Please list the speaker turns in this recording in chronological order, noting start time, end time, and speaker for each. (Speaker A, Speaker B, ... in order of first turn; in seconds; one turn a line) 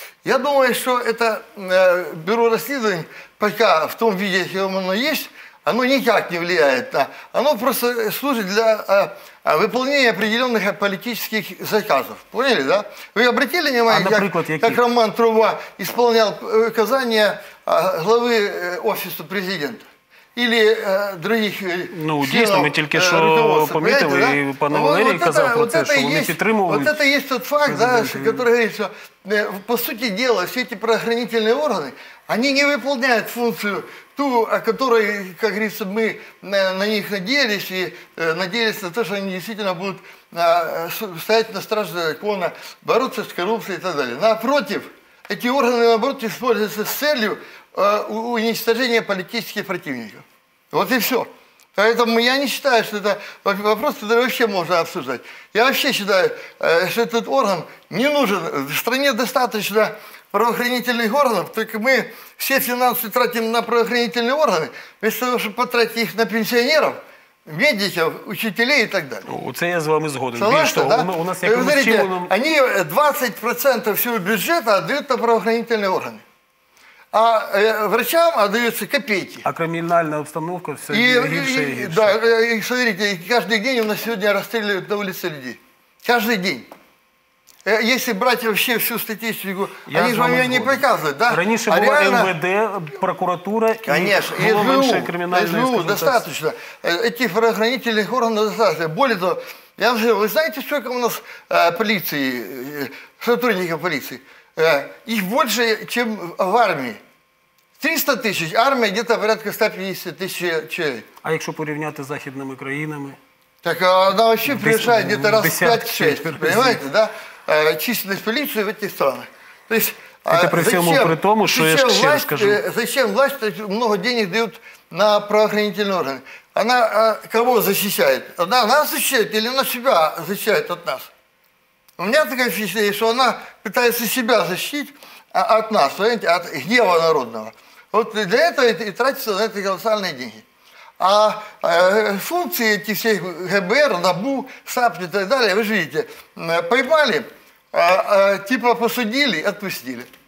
Speaker A: 0.2-69.3
Speaker B: 13.9-14.8
Speaker B: 21.9-26.9
Speaker B: 27.6-28.4
Speaker B: 69.3-72.3
Speaker A: 70.3-76.2
Speaker A: 77.1-79.4
Speaker B: 79.4-82.2
Speaker A: 80.9-86.7
Speaker A: 87.6-92.3
Speaker B: 89.9-96.3
Speaker A: 93.8-107.0
Speaker A: 107.8-111.1
Speaker B: 111.2-113.2
Speaker A: 113.6-131.1
Speaker B: 114.5-116.8
Speaker B: 120.3-122.6
Speaker A: 132.0-140.4
Speaker A: 141.0-150.1